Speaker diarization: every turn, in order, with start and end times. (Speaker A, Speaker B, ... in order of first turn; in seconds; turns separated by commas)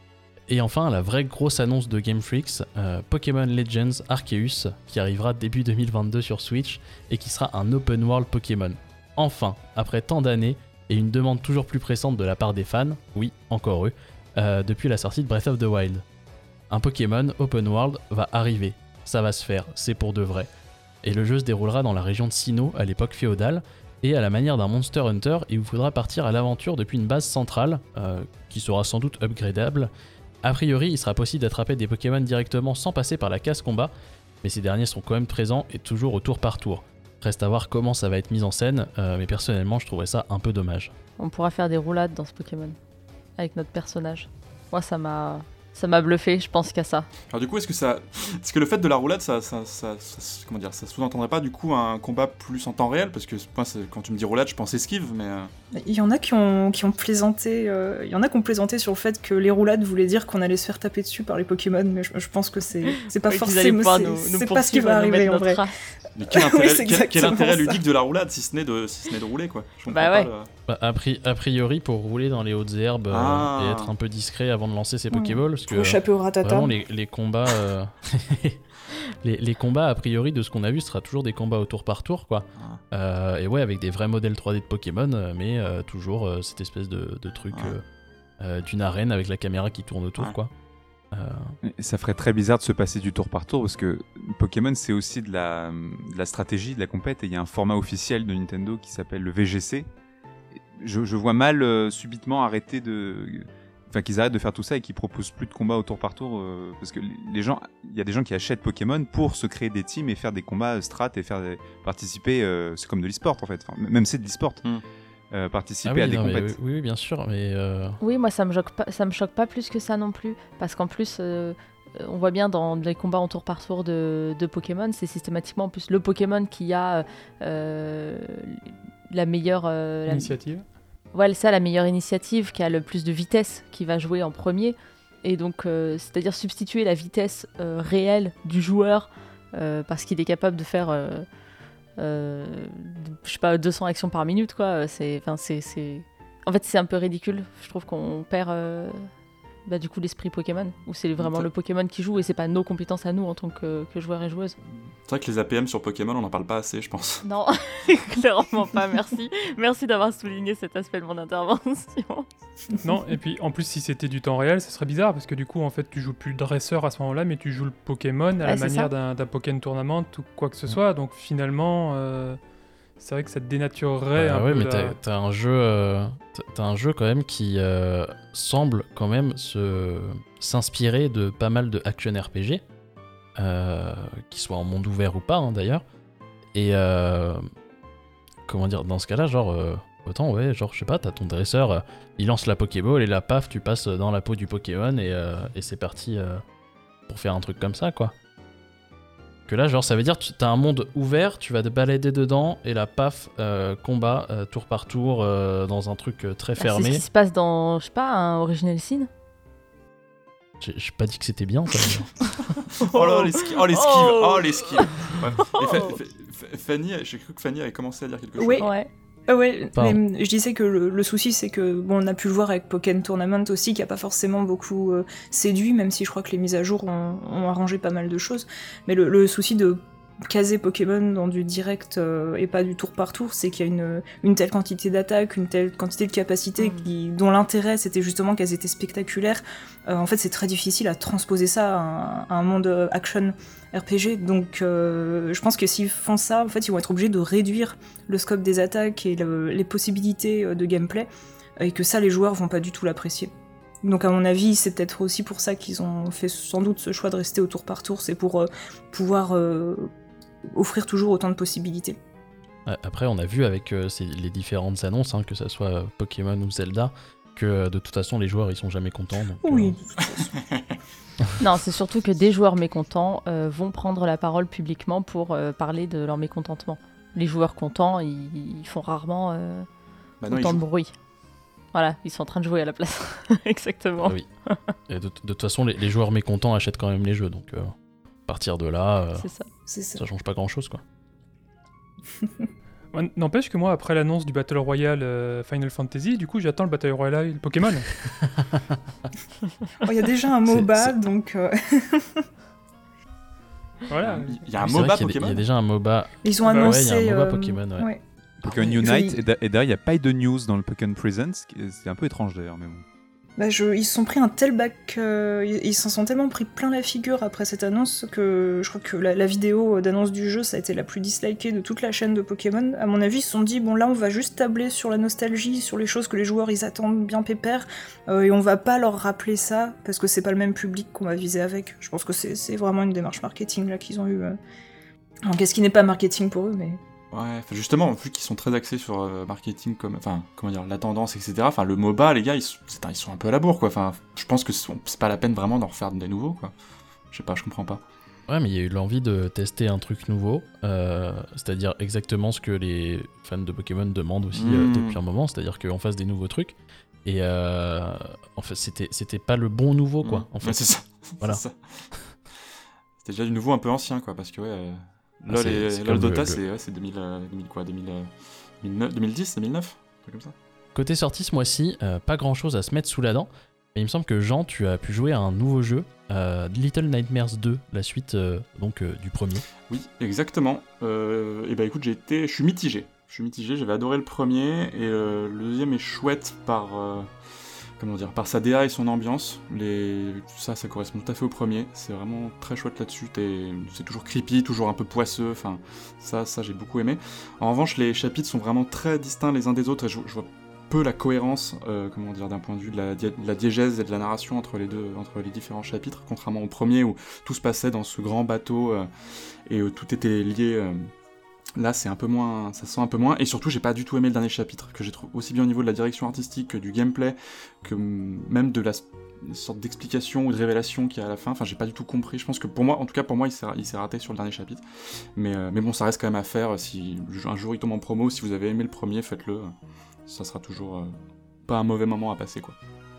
Speaker A: 0.5-16.0, Speaker A: 16.7-20.5, Speaker A: 21.0-29.9, Speaker A: 30.4-33.9, Speaker A: 34.4-40.9, Speaker B: 41.2-42.8, Speaker B: 43.4-47.1, Speaker C: 47.3-55.5, Speaker D: 55.7-65.6, Speaker B: 63.2-65.7, Speaker C: 66.1-70.5, Speaker D: 66.3-67.8, Speaker B: 69.9-70.3, Speaker A: 70.7-78.6, Speaker C: 73.1-73.9, Speaker D: 75.1-76.7, Speaker A: 79.2-87.8, Speaker A: 88.4-90.5, Speaker A: 91.1-91.5, Speaker E: 91.6-99.9, Speaker E: 100.5-114.6, Speaker E: 115.3-116.6, Speaker A: 115.8-118.0, Speaker B: 118.0-130.4, Speaker F: 130.1-130.7, Speaker B: 131.1-141.3, Speaker B: 142.0-149.1, Speaker B: 149.7-154.6, Speaker C: 151.2-151.5, Speaker C: 155.1-157.2, Speaker B: 157.2-162.3, Speaker F: 162.8-172.4, Speaker B: 168.4-168.9, Speaker F: 173.0-174.9, Speaker A: 174.2-182.6, Speaker A: 183.4-185.8, Speaker A: 186.5-187.4, Speaker A: 188.5-196.4, Speaker A: 197.1-198.1, Speaker A: 199.5-207.0, Speaker B: 206.6-209.1, Speaker A: 210.6-212.1, Speaker B: 212.8-216.0, Speaker C: 212.8-218.7, Speaker D: 218.4-218.7, Speaker B: 218.6-218.9, Speaker D: 219.3-253.3, Speaker A: 219.7-220.0, Speaker B: 236.6-236.9, Speaker D: 253.8-259.9, Speaker D: 260.5-262.0, Speaker A: 262.6-269.8, Speaker D: 269.4-270.3, Speaker C: 270.4-270.7, Speaker B: 271.4-279.7, Speaker C: 280.2-280.6, Speaker B: 280.3-280.9, Speaker B: 281.7-284.6, Speaker A: 284.0-284.3, Speaker A: 284.9-287.7, Speaker A: 288.3-289.3, Speaker B: 289.2-289.5, Speaker D: 289.7-290.0, Speaker A: 289.9-290.8, Speaker F: 292.9-298.0, Speaker A: 298.2-298.8, Speaker D: 299.8-302.2, Speaker A: 300.5-300.9, Speaker F: 303.9-304.4, Speaker C: 304.0-305.4, Speaker A: 304.6-307.9, Speaker D: 306.2-309.2, Speaker F: 306.4-306.8, Speaker E: 308.4-312.8, Speaker D: 313.4-334.4, Speaker D: 335.2-336.8, Speaker C: 337.1-346.5, Speaker C: 347.1-347.8, Speaker A: 348.3-361.4, Speaker C: 354.3-355.0, Speaker C: 360.0-361.8, Speaker C: 363.0-368.1, Speaker A: 365.3-366.4, Speaker C: 368.6-370.3, Speaker A: 370.7-379.4, Speaker C: 379.7-387.1, Speaker C: 387.8-408.9, Speaker C: 409.5-410.9, Speaker C: 411.6-424.6, Speaker C: 425.1-429.5, Speaker C: 430.1-430.9, Speaker C: 431.5-432.6